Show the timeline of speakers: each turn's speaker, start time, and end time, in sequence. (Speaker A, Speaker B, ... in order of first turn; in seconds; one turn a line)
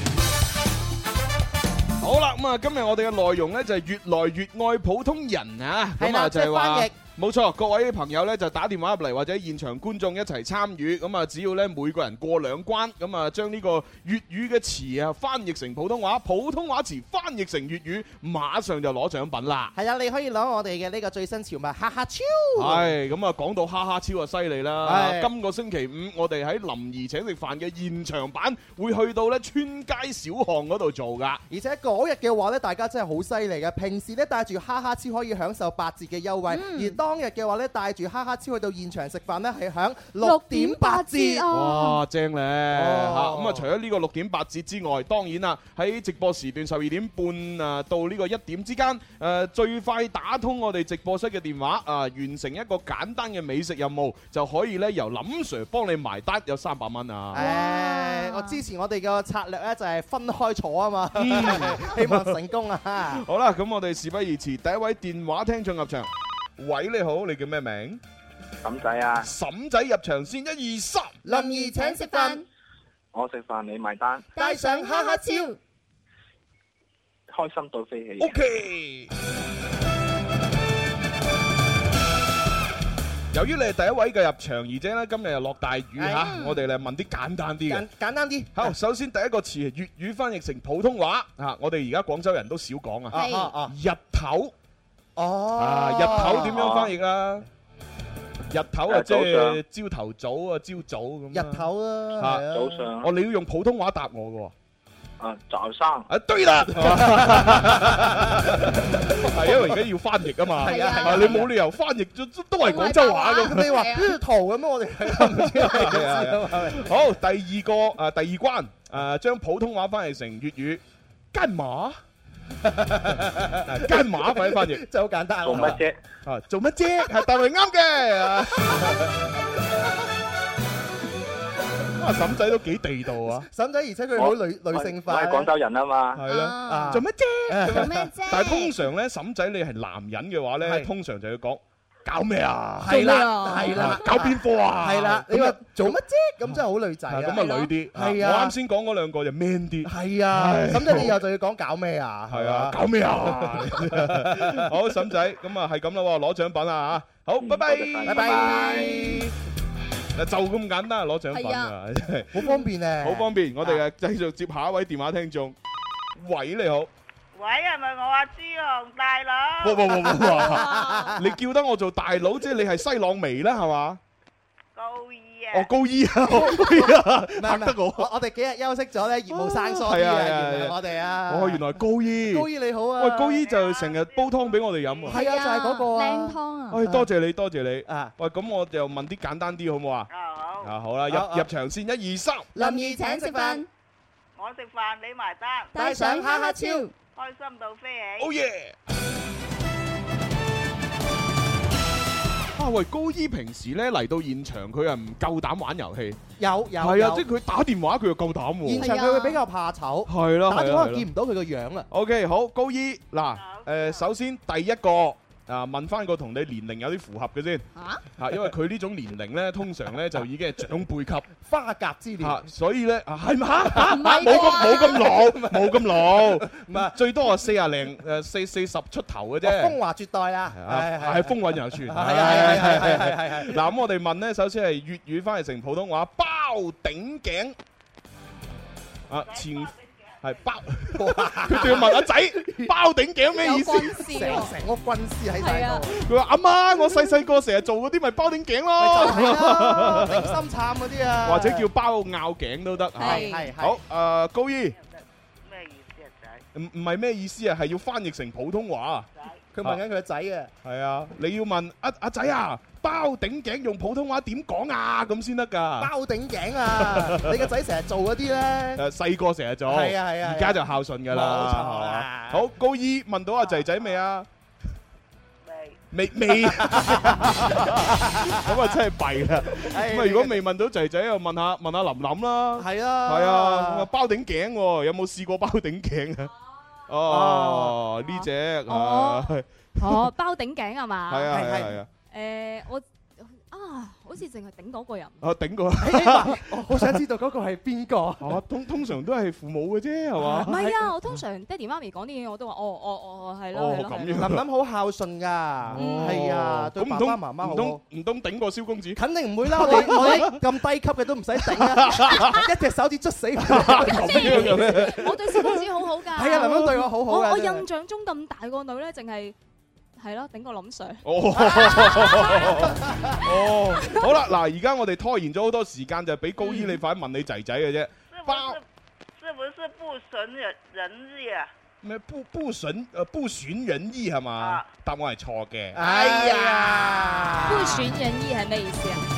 Speaker A: 2.0-19.7
Speaker B: 6.0-6.9
Speaker B: 19.7-22.9
Speaker A: 22.6-31.4
Speaker B: 24.8-25.3
Speaker B: 31.5-41.5
Speaker C: 36.5-37.0
Speaker C: 40.2-42.0
Speaker A: 41.5-57.4
Speaker B: 42.7-43.7
Speaker B: 57.3-63.2
Speaker C: 57.3-58.6
Speaker A: 61.1-62.4
Speaker A: 63.1-68.0
Speaker D: 68.6-69.3
Speaker A: 69.2-71.2
Speaker B: 71.2-72.4
Speaker C: 71.2-72.4
Speaker D: 73.1-74.3
Speaker C: 74.3-75.6
Speaker B: 74.4-75.5
Speaker D: 77.3-78.3
Speaker A: 78.2-79.1
Speaker A: 83.3-87.9
Speaker B: 86.0-86.4
Speaker C: 86.2-86.6
Speaker B: 87.7-88.7
Speaker A: 88.5-94.5
Speaker C: 93.1-93.5
Speaker B: 93.1-93.7
Speaker B: 95.2-96.6
Speaker A: 95.5-97.5
Speaker D: 96.4-96.9
Speaker A: 98.5-102.5
Speaker D: 98.9-99.6
Speaker B: 101.3-102.9
Speaker D: 102.5-103.1
Speaker A: 103.0-104.5
Speaker D: 105.2-106.1
Speaker A: 106.1-113.7
Speaker B: 106.8-108.3
Speaker B: 110.6-111.5
Speaker C: 110.6-111.4
Speaker E: 112.6-114.0
Speaker B: 113.4-116.9
Speaker A: 115.0-120.8
Speaker A: 121.3-122.0
Speaker B: 122.6-125.8
Speaker A: 123.6-124.9
Speaker D: 125.4-126.0
Speaker A: 126.2-129.1
Speaker A: 132.0-133.5
Speaker B: 133.5-135.5
Speaker D: 134.2-136.2
Speaker A: 136.1-145.9
Speaker C: 136.3-137.0
Speaker B: 136.6-138.1
Speaker C: 137.7-138.8
Speaker B: 140.6-140.9
Speaker B: 142.8-147.4
Speaker E: 142.9-143.6
Speaker C: 143.4-143.7
Speaker A: 146.5-151.2
Speaker E: 147.3-147.7
Speaker B: 147.9-148.5
Speaker B: 149.8-154.7
Speaker A: 152.3-158.6
Speaker D: 157.4-159.0
Speaker B: 158.1-159.3
Speaker C: 158.4-159.2
Speaker A: 160.1-165.5
Speaker C: 161.3-161.7
Speaker B: 162.3-163.8
Speaker A: 166.1-166.9
Speaker F: 167.3-169.9
Speaker A: 169.6-174.0
Speaker B: 170.0-171.2
Speaker E: 170.4-171.1
Speaker F: 174.8-175.7
Speaker A: 175.5-178.1
Speaker B: 176.3-181.6
Speaker A: 179.5-185.2
Speaker B: 182.3-183.4
Speaker F: 183.4-185.1
Speaker C: 185.1-186.8
Speaker B: 185.1-187.1
Speaker A: 186.7-190.1
Speaker B: 187.9-188.1
Speaker F: 190.1-190.7
Speaker A: 190.6-192.5
Speaker B: 191.1-191.5
Speaker B: 192.5-193.6
Speaker C: 192.5-193.7
Speaker F: 194.3-195.7
Speaker C: 195.7-196.9
Speaker B: 195.7-196.8
Speaker F: 197.1-198.3
Speaker A: 198.2-198.8
Speaker A: 202.5-206.2
Speaker B: 206.4-207.2
Speaker A: 206.8-208.9
Speaker B: 208.6-211.9
Speaker C: 208.8-209.4
Speaker A: 210.1-211.1
Speaker A: 211.9-217.7
Speaker F: 213.3-214.1
Speaker C: 217.8-218.0
Speaker A: 218.2-221.3
Speaker B: 221.4-222.4
Speaker A: 222.2-229.8
Speaker B: 223.7-226.9
Speaker C: 223.8-225.1
Speaker B: 229.4-233.6
Speaker A: 230.5-237.6
Speaker A: 239.1-244.3
Speaker F: 239.3-240.5
Speaker B: 240.9-242.7
Speaker E: 243.4-244.5
Speaker B: 243.5-246.0
Speaker E: 245.4-245.8
Speaker A: 246.0-250.4
Speaker B: 248.8-251.7
Speaker A: 251.2-254.8
Speaker E: 253.0-253.5
Speaker B: 253.0-253.8
Speaker F: 254.7-256.4
Speaker A: 256.5-259.1
Speaker B: 259.5-260.5
Speaker A: 260.6-265.9
Speaker B: 265.8-268.8
Speaker A: 266.7-267.5
Speaker A: 268.8-274.3
Speaker B: 269.6-272.4
Speaker F: 275.4-275.8
Speaker A: 275.9-286.3
Speaker B: 276.4-278.5
Speaker B: 279.6-280.4
Speaker B: 282.6-283.9
Speaker A: 286.9-290.1
Speaker B: 287.1-287.8
Speaker E: 288.0-291.3
Speaker A: 291.1-291.9
Speaker B: 291.3-291.8
Speaker E: 292.0-295.2
Speaker A: 295.2-297.0
Speaker B: 295.8-298.4
Speaker A: 298.2-300.9
Speaker B: 300.2-300.6
Speaker E: 300.2-304.2
Speaker A: 303.5-304.4
Speaker B: 304.1-307.8
Speaker A: 305.6-310.4
Speaker E: 305.8-306.2
Speaker B: 308.9-315.5
Speaker E: 309.8-310.3
Speaker A: 311.6-312.4
Speaker A: 313.4-315.6
Speaker E: 313.8-319.4
Speaker B: 316.1-317.6
Speaker A: 316.4-316.7
Speaker E: 320.0-322.7
Speaker A: 321.0-328.6
Speaker B: 321.6-321.9
Speaker E: 323.2-324.1
Speaker E: 326.4-326.7
Speaker F: 328.1-328.6
Speaker F: 329.2-331.5
Speaker A: 331.8-335.8
Speaker F: 334.4-334.6
Speaker B: 335.7-337.9
Speaker E: 335.8-339.1